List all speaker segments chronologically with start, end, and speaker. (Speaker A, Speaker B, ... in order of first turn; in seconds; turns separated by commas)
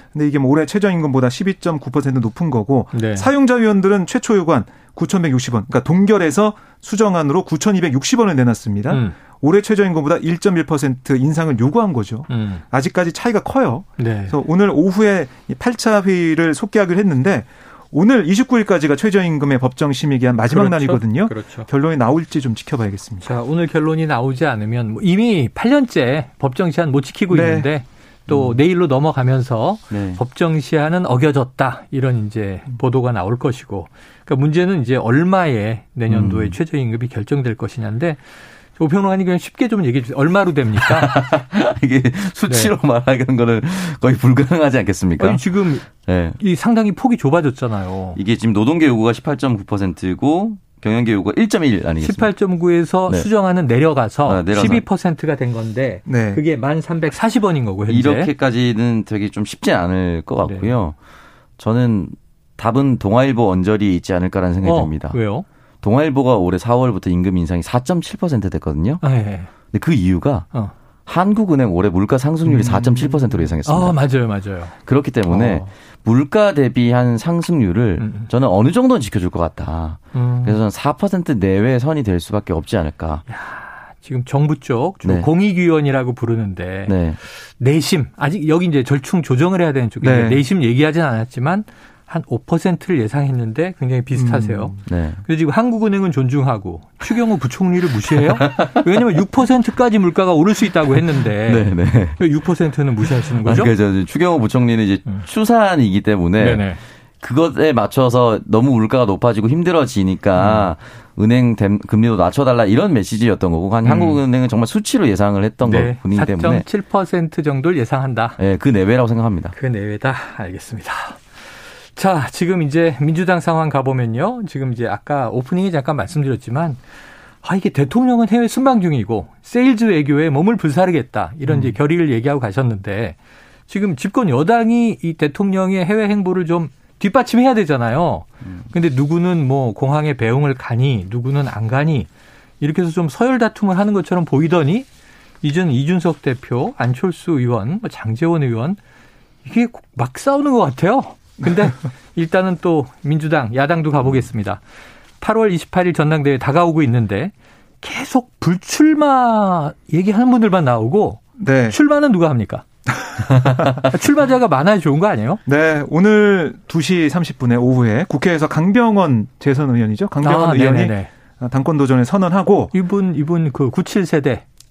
Speaker A: 0.1-23.3, Speaker B: 2.9-3.3, Speaker B: 8.9-9.2, Speaker B: 12.3-12.6, Speaker B: 14.0-14.4, Speaker B: 20.5-21.7, Speaker B: 23.2-41.2, Speaker A: 27.3-27.7, Speaker C: 29.9-30.2, Speaker C: 36.1-36.6, Speaker C: 40.8-46.4, Speaker B: 42.5-42.7, Speaker B: 45.2-45.9, Speaker B: 46.4-48.2, Speaker C: 48.1-52.3, Speaker B: 52.0-58.3, Speaker C: 54.3-54.8, Speaker A: 56.1-56.4, Speaker C: 57.9-60.9, Speaker B: 60.5-60.8, Speaker C: 61.6-65.2, Speaker B: 64.6-65.5, Speaker C: 65.8-69.0, Speaker B: 69.0-69.5, Speaker C: 69.7-70.5, Speaker C: 71.1-74.0, Speaker B: 72.5-74.8, Speaker C: 74.9-83.2, Speaker B: 75.3-75.7, Speaker B: 78.0-78.3, Speaker B: 80.1-80.6, Speaker B: 83.3-103.7, Speaker C: 85.0-85.3, Speaker C: 86.9-87.2, Speaker A: 90.0-90.4, Speaker A: 94.1-94.8, Speaker C: 94.9-95.2, Speaker C: 98.4-98.8, Speaker C: 101.5-102.2, Speaker C: 103.4-106.7, Speaker B: 106.4-106.8, Speaker C: 107.2-116.7, Speaker B: 110.4-110.7, Speaker B: 113.8-114.2, Speaker B: 115.6-118.4, Speaker C: 118.4-119.5, Speaker B: 119.5-126.8, Speaker B: 127.4-133.2, Speaker B: 133.7-142.1, Speaker B: 142.6-144.9, Speaker B: 145.4-148.8, Speaker B: 149.4-154.6, Speaker B: 155.2-162.7, Speaker A: 161.4-161.8, Speaker A: 163.0-163.7, Speaker B: 163.5-165.4, Speaker A: 165.5-172.7, Speaker B: 170.2-171.1, Speaker B: 172.7-174.4